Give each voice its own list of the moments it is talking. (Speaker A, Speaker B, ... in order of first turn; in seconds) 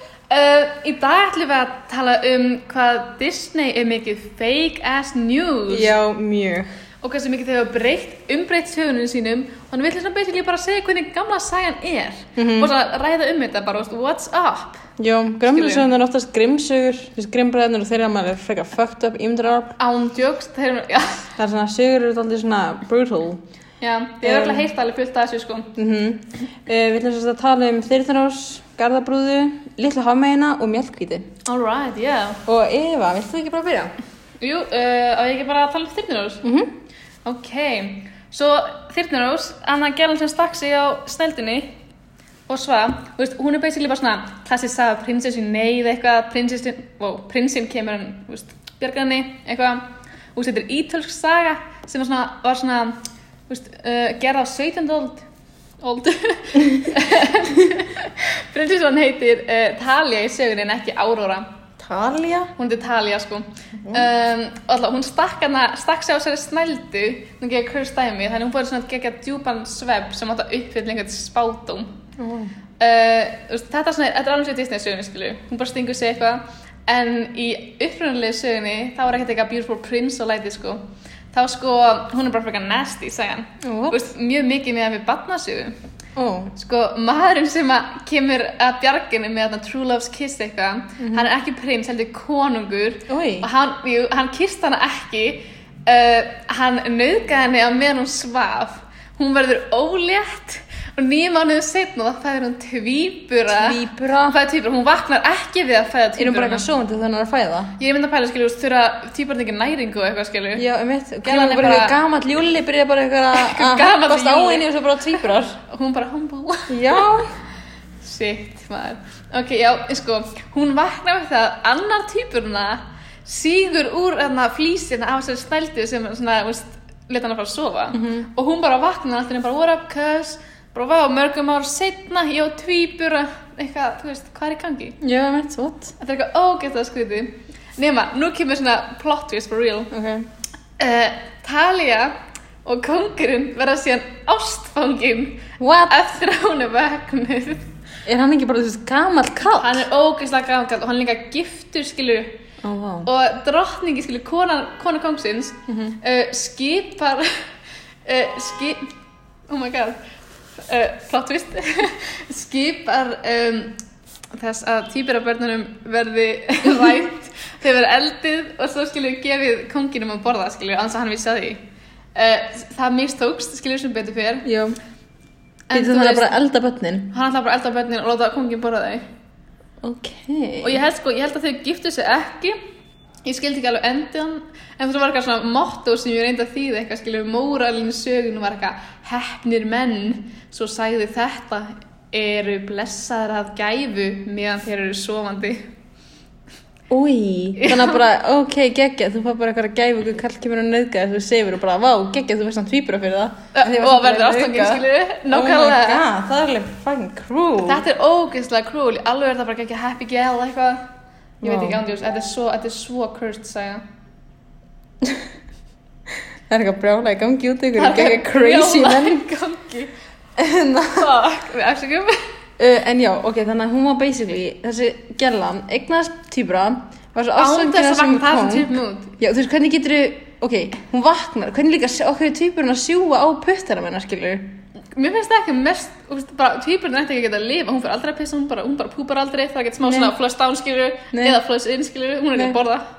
Speaker A: 0.3-5.9, 7.0-14.8, 15.4-15.8, 19.8-21.3, 23.8-25.7, 31.4-32.4, 34.4-36.4, 37.2-41.7, 42.5-55.3, 55.8-61.5, 62.6-71.9, 72.8-80.8, 81.3-85.8, 86.5-106.7, 107.8-110.6, 111.2-112.0, 113.3-114.7, 115.6-117.0, 118.0-134.9, 136.0-139.9, 140.8-142.1, 142.6-147.7, 149.6-152.4, 153.0-157.4, 158.1-158.9, 159.5-160.0, 160.6-163.8, 164.3-171.6, 172.1-174.5, 175.7-176.3, 177.1-179.0, 180.6-182.6, 183.2-195.7, 197.6-198.0, 203.5-206.0, 207.6-210.8, 211.4-213.8, 217.8-219.9, 220.9-222.2, 227.3-229.1, 234.9-242.8
Speaker B: 5.7-6.7, 12.4-12.7, 15.0-19.8, 21.4-23.4, 24.2-24.6, 25.8-31.3, 32.5-33.9, 36.4-36.7, 61.8-62.5, 63.8-64.1, 72.2-72.5, 83.6-84.0, 86.2-86.5, 91.0-91.3, 93.1-93.5, 103.5-104.4, 106.2-107.7, 110.5-115.6, 116.7-117.3, 127.9-128.3, 135.0-135.9, 139.9-140.3, 145.6-146.0, 148.1-149.8, 152.6-153.1, 155.7-156.0, 174.4-174.8, 175.7-177.1, 179.8-180.8, 196.9-207.8, 211.4-211.8, 216.5-219.2, 220.4-221.1, 222.6-234.5, 239.8-240.1, 241.1-241.4